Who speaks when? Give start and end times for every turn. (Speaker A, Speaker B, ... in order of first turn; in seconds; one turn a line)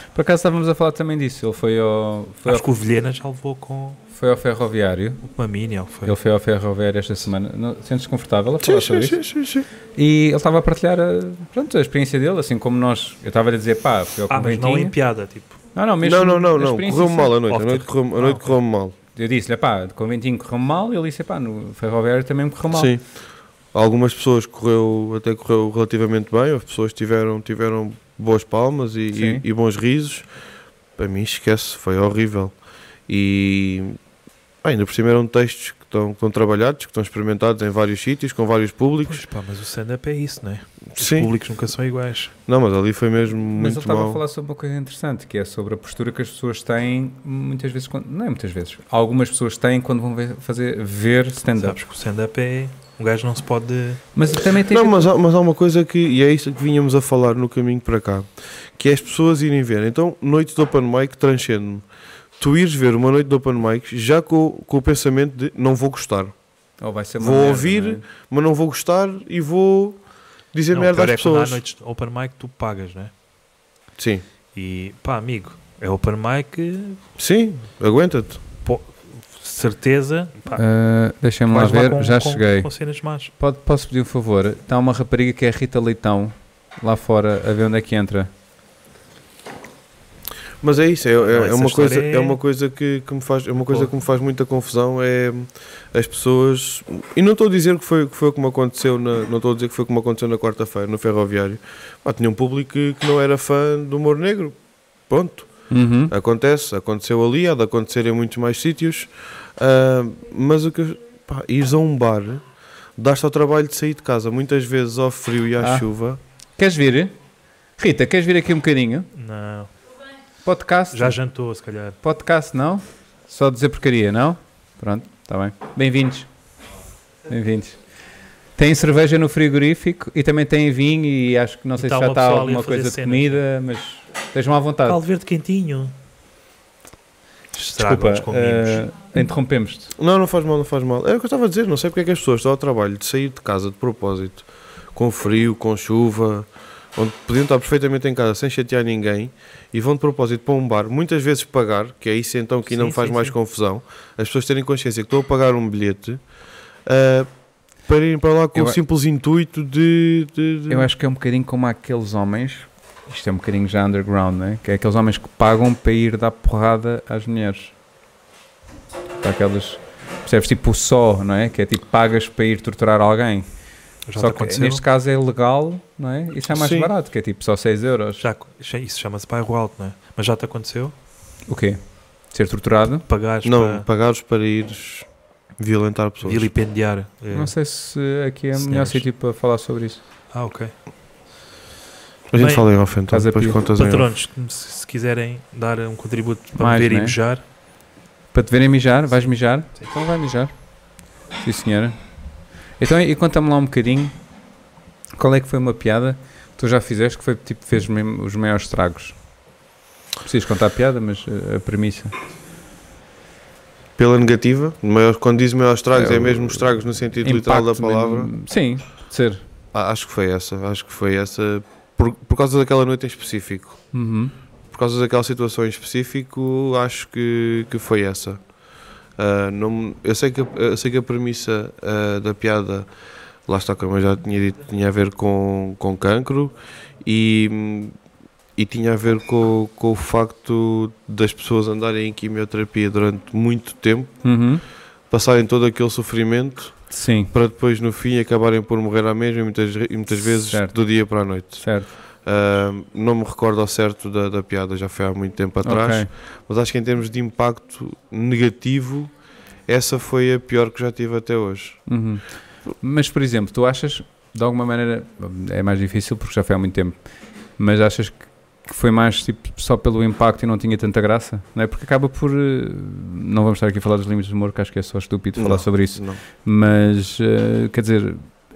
Speaker A: 0.1-2.7
Speaker B: 2.5-4.0
Speaker A: 4.1-5.2
Speaker B: 5.2-6.2
Speaker A: 6.0-9.2
Speaker C: 8.6-9.7
Speaker A: 10.0-14.9
Speaker B: 14.3-15.6
Speaker A: 15.8-17.6
Speaker C: 16.0-19.0
Speaker B: 17.5-18.5
Speaker A: 19.1-22.9
Speaker C: 22.7-23.0
Speaker C: 23.7-30.3
Speaker A: 29.1-29.4
Speaker C: 31.0-32.5
Speaker C: 33.1-34.0
Speaker C: 34.6-39.2
Speaker B: 39.0-42.3
Speaker C: 41.0-41.3
Speaker C: 42.5-44.2
Speaker A: 43.6-51.8
Speaker B: 51.6-54.0
Speaker A: 54.1-55.1
Speaker C: 54.7-61.9
Speaker C: 62.4-66.3
Speaker A: 66.8-68.0
Speaker C: 67.2-70.0
Speaker C: 70.5-71.6
Speaker B: 70.7-73.1
Speaker C: 74.0-74.2
Speaker B: 74.5-77.0
Speaker C: 77.2-78.4
Speaker B: 78.6-80.6
Speaker A: 80.5-82.7
Speaker B: 81.5-83.3
Speaker A: 83.4-88.3
Speaker C: 90.6-104.6
Speaker B: 91.3-92.4
Speaker C: 105.1-105.5
Speaker A: 105.7-106.1
Speaker C: 106.1-112.4
Speaker C: 113.0-116.2
Speaker A: 115.6-115.9
Speaker A: 116.6-117.2
Speaker A: 117.8-119.1
Speaker B: 119.1-119.7
Speaker A: 120.4-121.2
Speaker B: 120.9-122.0
Speaker A: 122.0-126.3
Speaker A: 127.3-127.8
Speaker A: 128.6-135.0
Speaker B: 131.8-133.4
Speaker B: 134.9-135.9
Speaker B: 137.5-138.8
Speaker A: 137.8-139.9
Speaker C: 140.0-156.2
Speaker B: 152.7-153.4
Speaker C: 156.9-157.3
Speaker C: 157.8-160.9
Speaker A: 160.7-167.7
Speaker A: 169.2-173.5
Speaker B: 174.1-174.8
Speaker A: 174.2-178.3
Speaker C: 176.5-176.9
Speaker B: 178.2-180.9
Speaker A: 181.5-183.1
Speaker B: 183.1-183.9
Speaker C: 183.4-186.5
Speaker B: 186.2-187.5
Speaker A: 187.3-190.0
Speaker B: 188.6-189.0
Speaker B: 190.3-190.7
Speaker C: 192.3-194.1
Speaker B: 192.4-192.7
Speaker A: 193.1-193.6
Speaker B: 193.7-197.4
Speaker A: 196.6-197.2
Speaker A: 198.3-200.5
Speaker A: 201.4-202.0
Speaker A: 202.8-204.1
Speaker A: 205.2-209.2
Speaker A: 210.2-212.1
Speaker C: 214.0-218.3
Speaker A: 215.9-216.6
Speaker A: 217.2-219.4
Speaker C: 219.7-223.8
Speaker A: 223.9-224.3
Speaker C: 224.7-228.4
Speaker C: 229.2-232.9
Speaker C: 233.5-237.9
Speaker C: 238.6-244.2
Speaker A: 244.2-244.6
Speaker C: 245.1-259.1
Speaker A: 246.9-247.3
Speaker A: 250.5-250.8
Speaker A: 251.6-251.9
Speaker A: 255.6-256.1
Speaker C: 259.7-261.8
Speaker A: 261.9-267.0
Speaker A: 267.6-278.3
Speaker C: 275.4-276.2